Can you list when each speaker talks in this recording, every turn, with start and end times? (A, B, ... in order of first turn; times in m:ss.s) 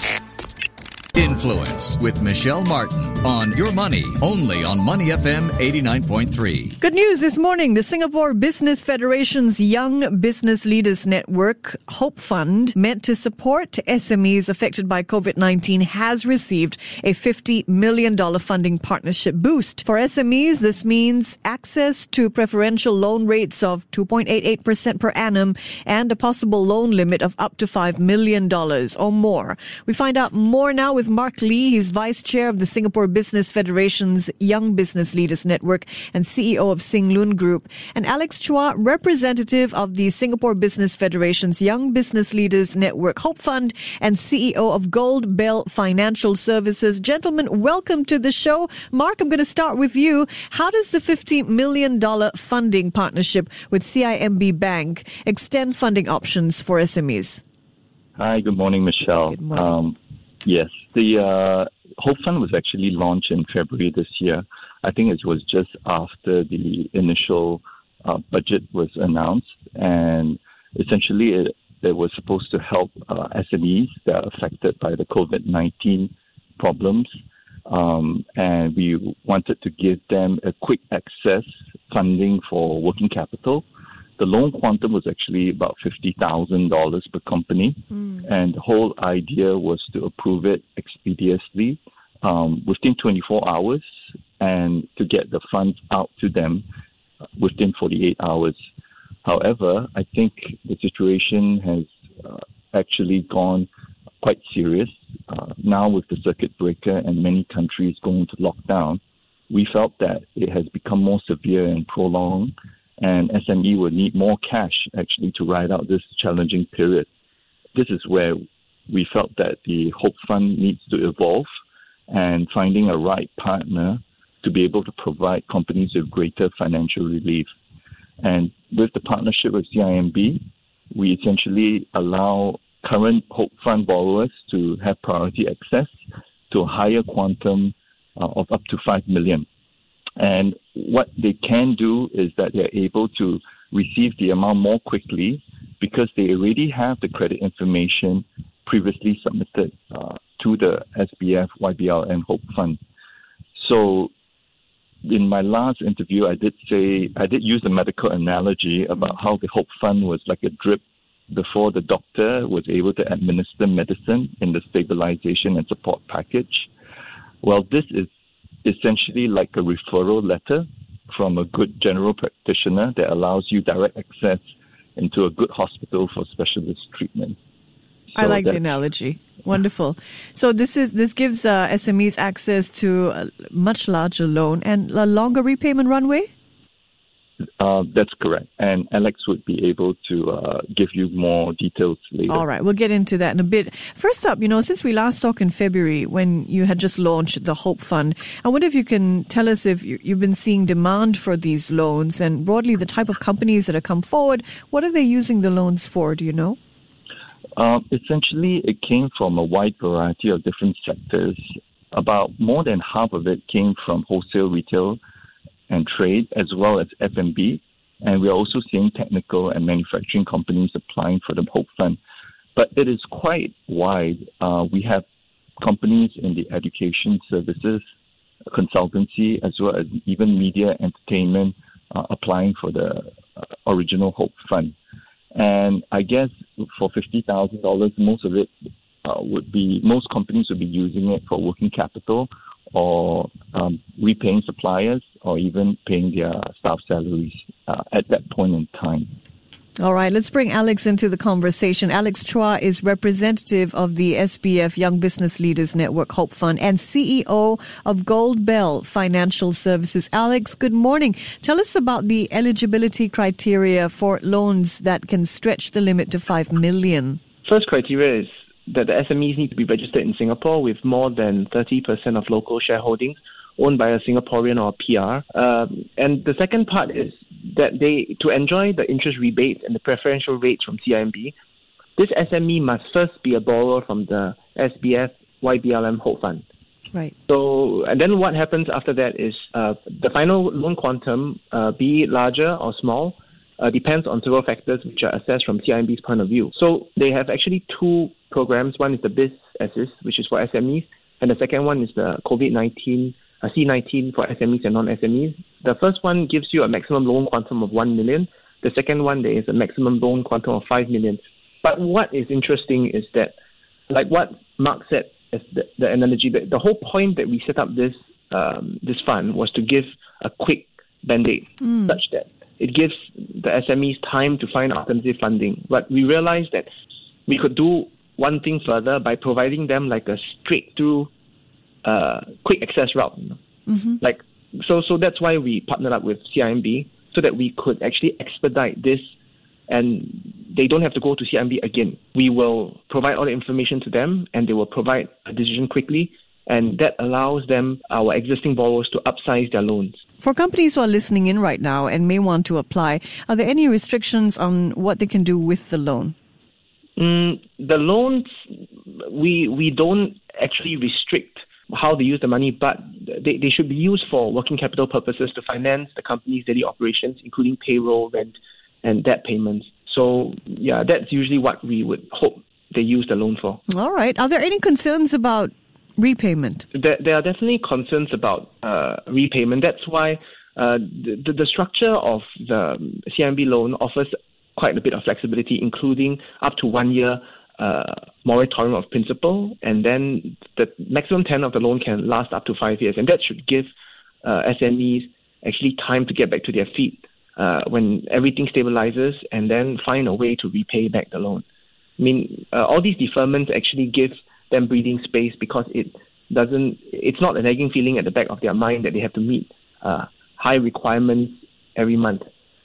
0:01.1-0:06.8 A
0:06.8-0:57.4 B
0:58.2-1:17.1 C
0:59.2-0:59.7 B
1:17.7-1:23.6 C
1:24.2-1:33.8 C
1:34.4-1:36.6 C
1:37.4-1:38.6 C
1:39.2-1:43.7 C
1:44.2-1:57.1 C
1:57.7-2:01.5 C
2:02.1-2:07.5 C
2:08.2-2:10.4 C
2:10.9-2:15.9 C
2:16.5-2:19.4 C
2:20.2-2:32.8 C
2:33.5-2:34.1 C
2:35.0-2:46.7 C
2:47.4-2:48.1 C
2:48.6-2:54.4 C
2:55.0-2:57.4 C
2:58.1-2:58.6 C
2:58.1-3:06.3 B
3:07.6-3:12.4 C
3:12.3-3:26.6 B
3:27.6-3:31.4 C
3:31.9-3:35.0 C
3:35.7-3:42.0 C
3:42.6-3:45.0 C
3:45.6-3:47.8 C
3:48.5-3:54.7 C
3:55.3-3:58.5 C
3:59.0-4:09.1 C
4:09.8-4:27.2 B
4:27.4-4:41.3 D
4:42.0-4:46.4 D
4:47.3-5:13.3 D
5:13.9-5:26.7 D
5:21.6-5:22.0 B
5:27.3-5:31.1 D
5:31.8-5:33.4 D
5:33.7-5:33.9 B
5:34.0-5:39.0 D
5:39.7-5:50.0 D
5:50.2-5:56.1 B
5:57.0-5:58.3 D
5:59.0-6:13.6 D
6:13.7-6:16.6 B
6:16.7-6:33.7 D
6:34.2-6:41.4 D
6:42.0-6:52.2 D